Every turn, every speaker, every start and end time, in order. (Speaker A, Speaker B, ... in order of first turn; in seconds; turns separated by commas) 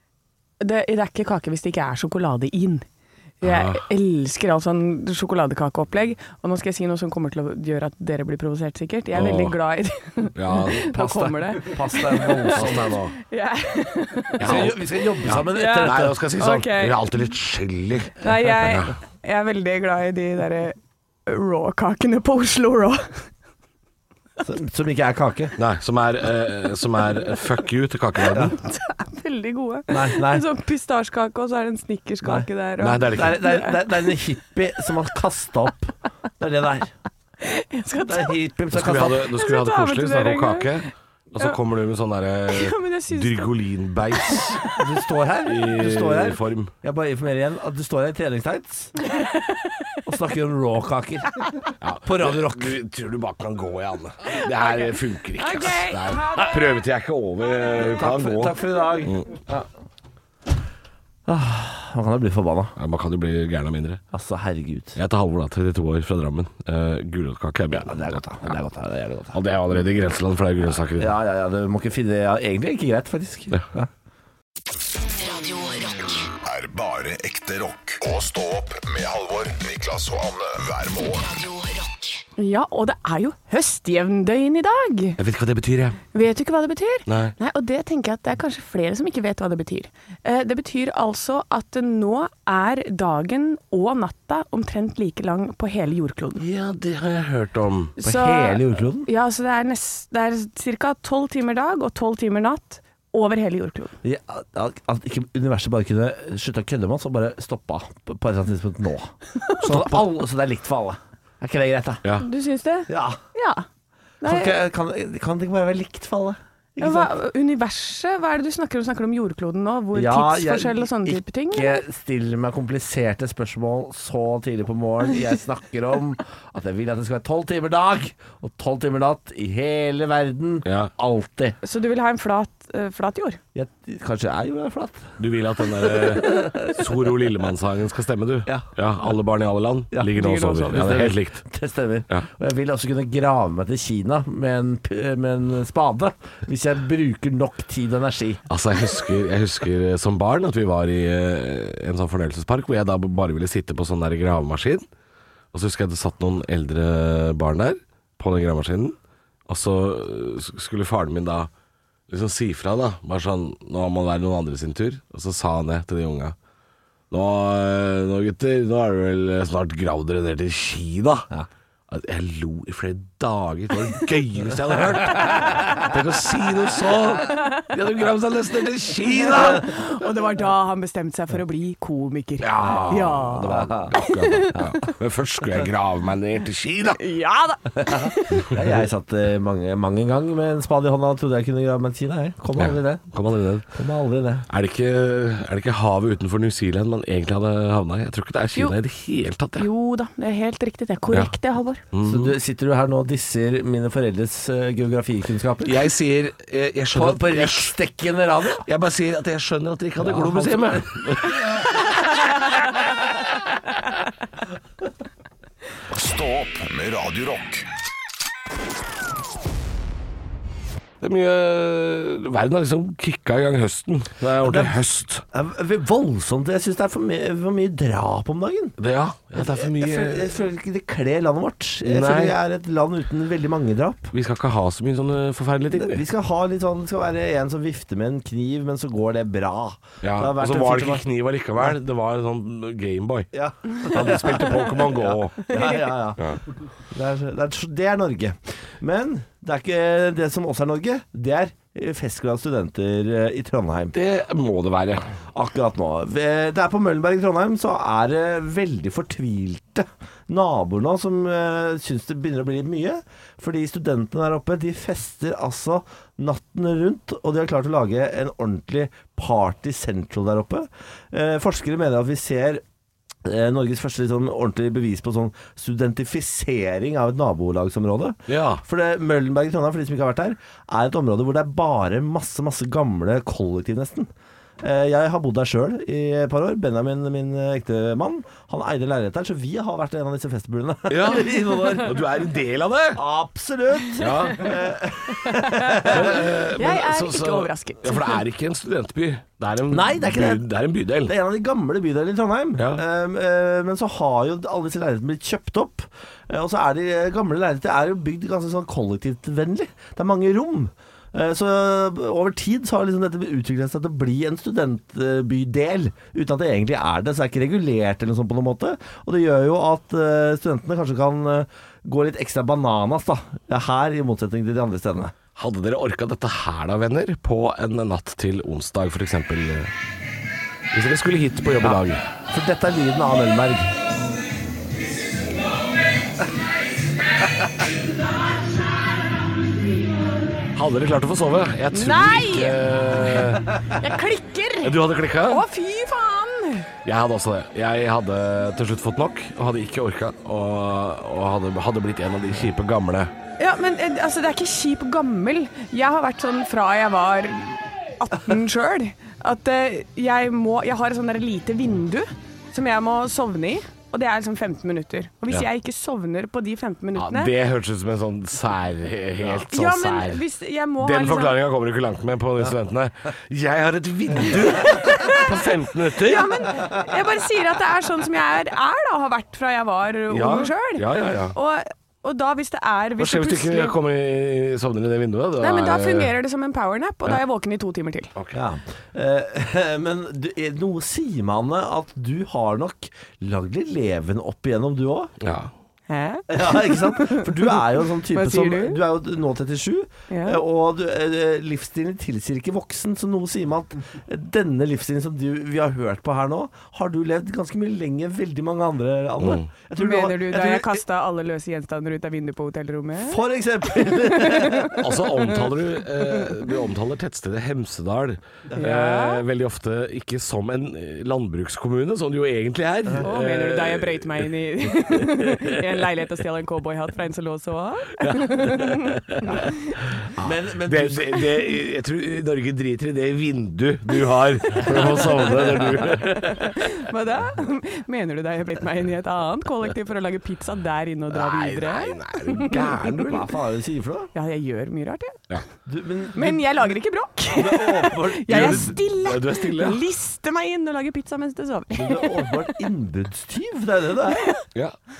Speaker A: 0.6-2.9, Speaker A: 3.4-17.0, Speaker B: 3.4-3.8, Speaker B: 9.1-9.6, Speaker B: 10.3-10.9, Speaker C: 10.8-12.9, Speaker B: 12.5-13.1, Speaker B: 14.4-18.9, Speaker C: 14.4-16.2, Speaker A: 18.2-23.3, Speaker C: 24.4-25.5, Speaker B: 25.6-28.6, Speaker A: 28.3-33.8, Speaker C: 29.9-30.4, Speaker B: 32.8-33.5, Speaker C: 33.1-36.9, Speaker A: 37.4-38.4, Speaker C: 38.0-39.3, Speaker B: 38.7-44.6, Speaker A: 39.3-40.7, Speaker A: 42.5-43.5, Speaker A: 44.2-44.5, Speaker C: 44.8-48.9, Speaker B: 45.4-46.7, Speaker A: 49.1-49.5, Speaker C: 50.0-52.8, Speaker B: 51.8-59.3, Speaker A: 54.3-56.7, Speaker C: 57.8-59.7, Speaker C: 61.2-62.7, Speaker B: 62.8-64.0, Speaker C: 64.1-65.0, Speaker B: 65.0-68.5, Speaker C: 67.7-69.4, Speaker B: 69.3-71.1, Speaker C: 71.0-73.9, Speaker D: 75.1-76.3, Speaker E: 76.4-81.3, Speaker D: 81.2-82.2, Speaker A: 82.4-85.2, Speaker B: 85.2-86.0, Speaker A: 86.1-96.4, Speaker B: 87.1-87.3, Speaker B: 96.4-97.9, Speaker A: 98.0-103.9, Speaker C: 98.0-99.1, Speaker C: 104.0-112.0, Speaker A: 109.4-109.7, Speaker A: 112.2-113.7, Speaker C: 112.9-113.2, Speaker A: 114.2-114.5, Speaker C: 114.2-117.1, Speaker A: 116.8-121.8, Speaker C: 119.9-131.6, Speaker B: 130.6-130.9, Speaker A: 131.6-133.4, Speaker C: 133.5-135.1, Speaker B: 135.2-141.4, Speaker C: 135.7-137.3, Speaker C: 139.9-148.4, Speaker A: 140.2-140.8, Speaker B: 148.5-154.8, Speaker B: 155.5-159.0, Speaker B: 159.5-161.5, Speaker B: 162.1-166.3, Speaker B: 167.1-171.3, Speaker B: 171.9-179.7, Speaker A: 179.2-184.9, Speaker B: 182.4-187.0, Speaker C: 183.4-183.9, Speaker A: 187.0-188.5, Speaker C: 187.8-193.1, Speaker B: 192.6-193.7, Speaker C: 193.7-194.4, Speaker B: 194.5-199.7, Speaker A: 199.6-201.8, Speaker B: 201.9-202.3, Speaker C: 202.0-205.9, Speaker B: 205.6-207.7, Speaker C: 206.9-208.6, Speaker B: 208.6-211.7, Speaker C: 210.0-210.8, Speaker E: 215.9-217.7, Speaker B: 221.0-225.2, Speaker C: 224.4-224.8, Speaker C: 225.3-228.8, Speaker B: 228.8-230.3, Speaker C: 229.3-234.1, Speaker B: 231.8-232.3, Speaker B: 234.1-236.0, Speaker C: 235.7-241.0, Speaker B: 240.0-243.3, Speaker C: 243.3-246.3, Speaker B: 243.8-245.5, Speaker C: 246.9-253.9, Speaker B: 253.9-255.1, Speaker C: 255.3-272.6, Speaker C: 273.2-292.0, Speaker B: 278.3-278.6, Speaker B: 290.9-293.0, Speaker C: 292.9-296.2, Speaker B: 294.0-294.5, Speaker A: 295.1-298.2, Speaker B: 295.8-301.1, Speaker C: 299.7-300.4, Speaker C: 301.0-325.1, Speaker B: 325.4-329.7, Speaker B: 330.7-332.0, Speaker C: 331.6-333.7, Speaker B: 340.5-343.5, Speaker A: 341.7-342.6, Speaker A: 343.7-344.8, Speaker B: 344.6-345.4, Speaker A: 345.3-346.7, Speaker B: 346.8-353.1, Speaker A: 353.4-367.3, Speaker B: 366.9-370.2, Speaker A: 369.5-371.4, Speaker B: 370.8-376.5, Speaker A: 374.5-375.3, Speaker A: 375.9-383.7, Speaker B: 380.1-381.3, Speaker B: 383.0-386.1, Speaker A: 385.4-388.1, Speaker C: 388.3-395.1, Speaker B: 395.2-395.5, Speaker A: 395.9-398.8, Speaker C: 396.3-410.8, Speaker A: 400.1-400.4, Speaker B: 409.2-409.5, Speaker A: 409.8-413.2, Speaker C: 413.0-414.8, Speaker A: 413.8-414.8, Speaker B: 414.8-424.3, Speaker A: 418.6-419.2, Speaker A: 423.0-429.8, Speaker B: 428.0-429.3, Speaker B: 430.0-436.5, Speaker C: 430.2-431.3, Speaker C: 434.7-435.8, Speaker A: 435.9-442.9, Speaker B: 441.1-443.3, Speaker C: 443.0-444.1, Speaker A: 444.1-445.2, Speaker C: 445.6-446.4, Speaker A: 446.1-452.5, Speaker C: 447.3-448.8, Speaker B: 448.3-449.8, Speaker C: 451.7-454.3